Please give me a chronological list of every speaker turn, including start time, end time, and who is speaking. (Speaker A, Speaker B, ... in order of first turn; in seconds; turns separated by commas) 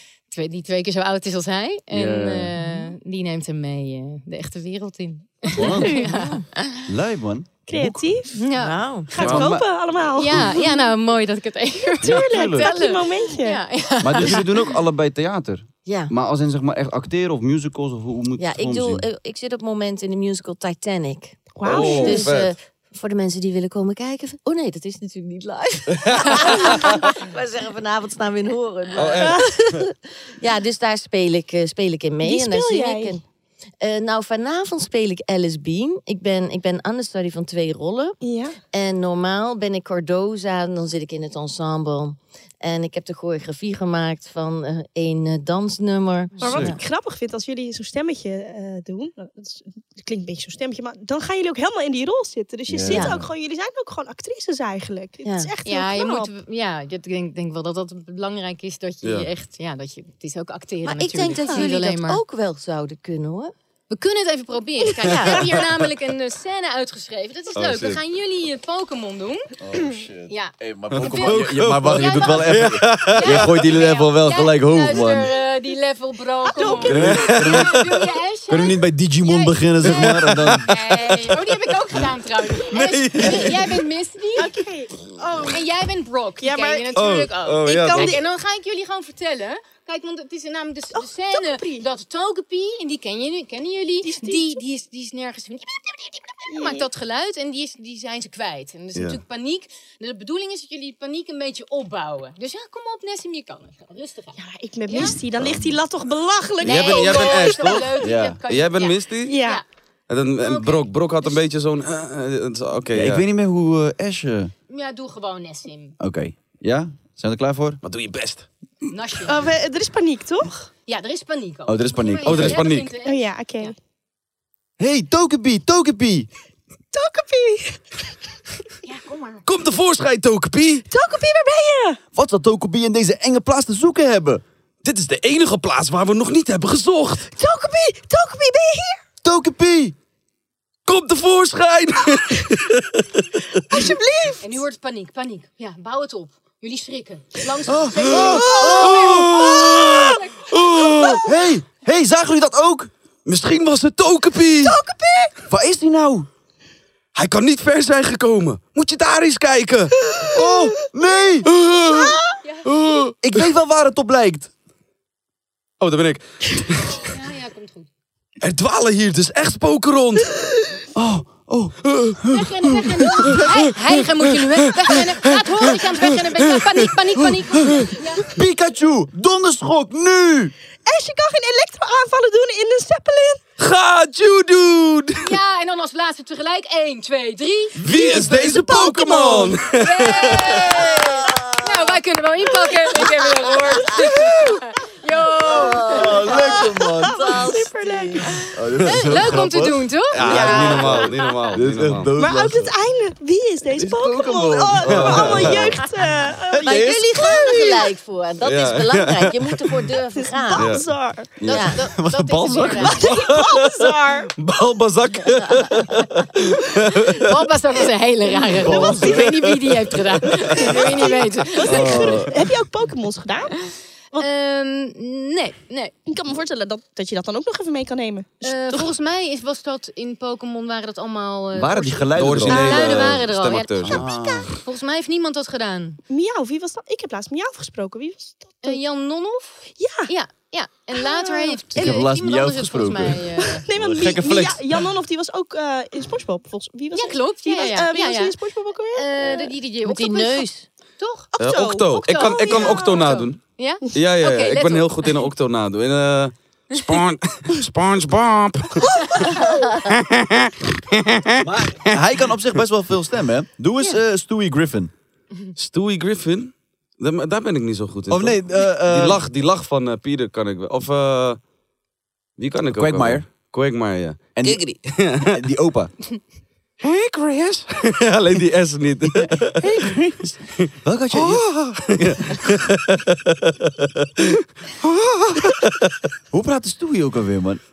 Speaker A: 0.3-6.9, Speaker B: 1.9-2.6, Speaker C: 5.5-6.1, Speaker B: 5.5-6.1, Speaker D: 6.0-6.5, Speaker B: 6.9-8.1, Speaker C: 7.7-8.4, Speaker A: 8.3-9.3, Speaker D: 8.6-9.5, Speaker C: 9.1-10.9, Speaker B: 9.2-9.7, Speaker A: 10.1-14.8, Speaker C: 11.8-13.6, Speaker B: 12.0-12.7, Speaker B: 14.0-19.0, Speaker D: 15.8-16.1, Speaker D: 18.4-33.2, Speaker C: 21.5-22.4, Speaker E: 21.6-22.5, Speaker E: 25.9-26.8, Speaker E: 28.9-29.5, Speaker C: 29.2-29.5, Speaker C: 32.2-33.2, Speaker D: 33.8-38.2, Speaker C: 38.2-38.6, Speaker D: 38.7-46.8, Speaker B: 46.4-46.8, Speaker C: 46.4-56.3, Speaker B: 52.7-53.3, Speaker D: 52.9-53.2, Speaker D: 55.2-55.5, Speaker A: 55.6-62.2, Speaker E: 59.0-59.3, Speaker D: 60.8-63.5, Speaker C: 61.5-61.7, Speaker A: 63.9-69.5, Speaker C: 64.9-65.5, Speaker D: 65.0-65.4, Speaker E: 67.6-68.0, Speaker B: 69.6-75.4, Speaker A: 70.3-80.1, Speaker E: 70.9-73.7, Speaker C: 76.4-77.6, Speaker B: 76.9-81.4, Speaker E: 76.9-77.8, Speaker E: 79.8-80.7, Speaker A: 80.7-84.5, Speaker E: 82.7-83.8, Speaker C: 84.4-85.6, Speaker A: 85.4-104.4, Speaker C: 86.4-88.3, Speaker E: 87.0-88.2, Speaker C: 90.9-91.9, Speaker C: 94.0-94.6, Speaker C: 96.5-96.9, Speaker E: 99.0-99.2, Speaker C: 104.4-107.8, Speaker A: 104.9-105.2, Speaker E: 105.4-105.7, Speaker E: 106.6-109.4, Speaker A: 106.6-109.7, Speaker B: 108.0-108.4, Speaker C: 109.2-109.6, Speaker E: 110.1-113.2, Speaker A: 110.4-111.4, Speaker B: 112.9-114.5, Speaker A: 114.7-115.9, Speaker B: 116.0-117.8, Speaker E: 117.8-118.5, Speaker A: 118.9-119.5, Speaker C: 119.2-120.7, Speaker A: 120.9-123.7, Speaker B: 121.7-122.6, Speaker E: 122.2-122.9, Speaker C: 123.0-123.8, Speaker B: 124.8-126.3, Speaker C: 126.9-128.1, Speaker A: 128.8-129.5, Speaker E: 129.4-130.9, Speaker C: 130.9-132.0, Speaker B: 132.1-134.4, Speaker E: 134.8-137.3, Speaker C: 137.3-139.0, Speaker B: 139.2-140.0, Speaker E: 140.9-143.3, Speaker C: 143.6-144.6, Speaker A: 144.4-150.9, Speaker B: 147.7-149.9, Speaker C: 147.9-151.3, Speaker E: 148.3-151.3, Speaker B: 151.1-152.9, Speaker E: 153.3-154.8, Speaker C: 154.6-155.4, Speaker B: 155.5-156.3, Speaker E: 157.2-160.0, Speaker C: 160.1-162.4, Speaker B: 160.3-161.5, Speaker E: 161.4-163.5, Speaker B: 163.2-164.5, Speaker E: 165.8-167.0, Speaker A: 166.9-167.9, Speaker E: 168.4-170.4, Speaker B: 170.9-173.5, Speaker E: 171.8-172.2, Speaker A: 172.3-178.3, Speaker E: 174.8-175.5, Speaker E: 176.0-176.7, Speaker B: 177.2-180.5, Speaker C: 180.9-183.4, Speaker E: 183.6-185.4, Speaker A: 185.2-188.0, Speaker E: 187.8-190.7, Speaker C: 187.9-189.6, Speaker B: 188.1-188.9, Speaker A: 189.7-196.2, Speaker D: 190.7-192.0, Speaker C: 195.5-198.5, Speaker D: 195.5-198.3, Speaker B: 195.9-197.4, Speaker B: 198.5-202.7, Speaker A: 198.8-201.2, Speaker E: 200.1-202.1, Speaker C: 200.2-201.5, Speaker C: 202.2-207.7, Speaker B: 203.8-205.8, Speaker E: 204.8-205.6, Speaker B: 206.5-207.9, Speaker D: 206.7-210.8, Speaker E: 208.4-209.8, Speaker C: 210.1-211.5, Speaker E: 210.5-210.9, Speaker B: 211.4-213.3, Speaker D: 211.4-211.8, Speaker A: 211.5-213.2, Speaker C: 212.8-214.3, Speaker E: 213.1-217.3, Speaker A: 217.3-222.2, Speaker C: 218.4-219.4, Speaker B: 218.5-219.2, Speaker E: 218.7-219.8, Speaker C: 220.2-223.6, Speaker B: 221.7-222.3, Speaker A: 224.2-225.9, Speaker C: 226.1-228.9, Speaker A: 228.4-236.0, Speaker B: 231.5-233.0, Speaker E: 232.2-234.1, Speaker C: 232.4-233.0, Speaker B: 233.8-234.6, Speaker C: 236.1-238.8, Speaker A: 238.6-243.7, Speaker C: 239.8-240.1, Speaker C: 240.9-242.1, Speaker B: 241.7-244.6, Speaker C: 243.4-249.5, Speaker A: 246.9-248.4, Speaker A: 248.9-251.3, Speaker D: 249.8-250.7, Speaker C: 251.3-253.1, Speaker E: 251.4-253.4, Speaker A: 252.0-255.2, Speaker E: 253.9-259.1, Speaker A: 256.7-257.0, Speaker C: 258.8-259.7, Speaker E: 259.9-262.0, Speaker B: 261.4-264.9, Speaker E: 265.6-271.4, Speaker B: 268.1-269.2, Speaker E: 272.4-275.4, Speaker B: 272.7-273.2, Speaker B: 274.4-274.7, Speaker B: 275.2-275.9, Speaker E: 276.8-280.0, Speaker B: 277.1-277.6, Speaker B: 279.8-280.3, Speaker E: 280.6-285.8, Speaker B: 280.8-282.4, Speaker B: 285.1-285.5, Speaker B: 286.3-287.6